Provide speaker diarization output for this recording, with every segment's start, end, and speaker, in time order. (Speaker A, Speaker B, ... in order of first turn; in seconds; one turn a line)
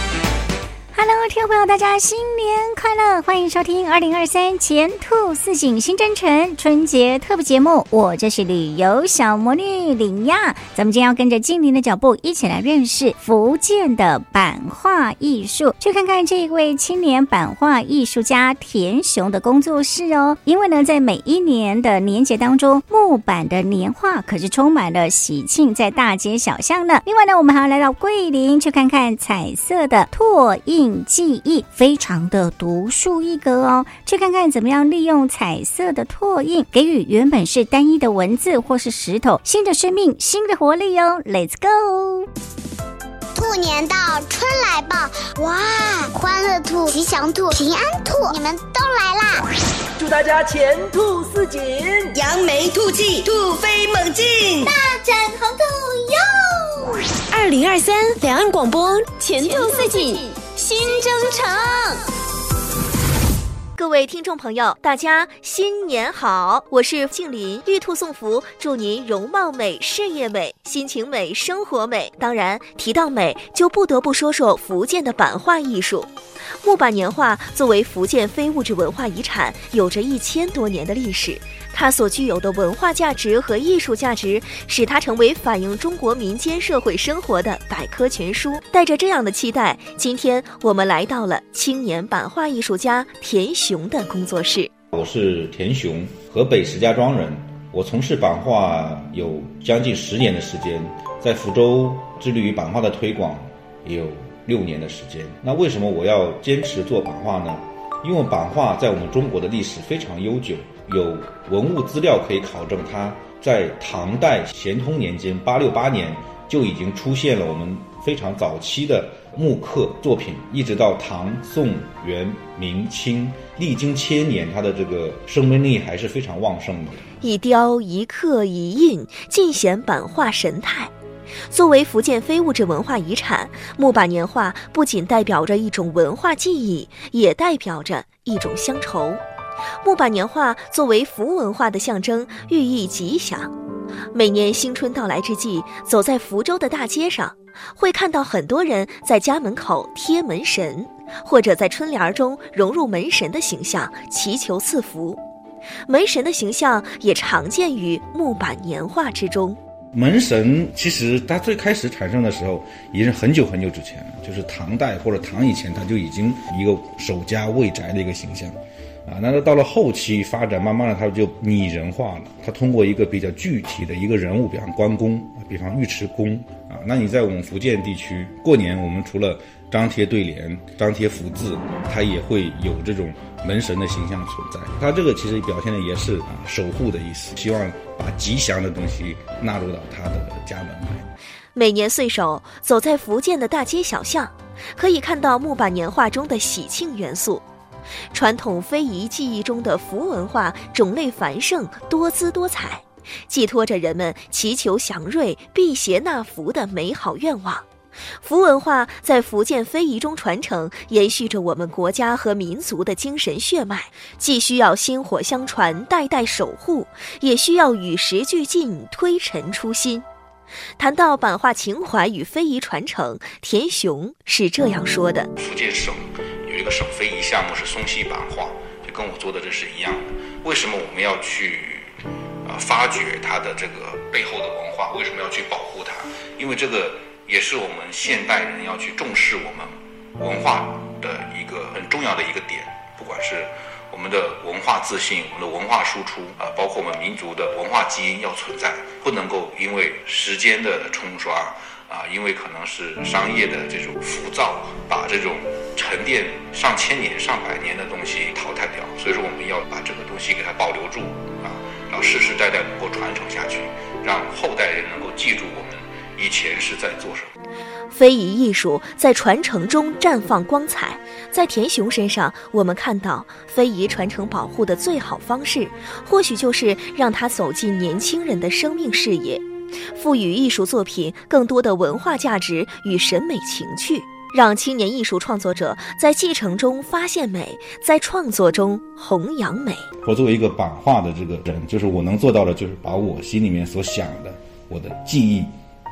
Speaker A: 0.9-42.3
Speaker B: 43.4-49.4
Speaker C: 50.0-52.1
Speaker D: 52.0-54.8
Speaker E: 54.8-56.2
Speaker E: 57.3-62.0
Speaker F: 63.7-76.1
Speaker F: 76.6-94.7
Speaker G: 94.9-127.0
Speaker F: 127.2-130.9
Speaker F: 131.5-139.2
Speaker F: 139.8-143.5
Speaker F: 144.1-155.2
Speaker F: 155.9-159.6
Speaker G: 159.9-191.1
Speaker F: 191.5-197.4
Speaker F: 198.1-207.7
Speaker F: 208.2-220.0
Speaker F: 220.8-225.3
Speaker G: 225.4-231.9
Speaker G: 232.4-267.3
Speaker F: 267.9-279.4
Speaker F: 279.9-289.8
Speaker G: 290.0-295.5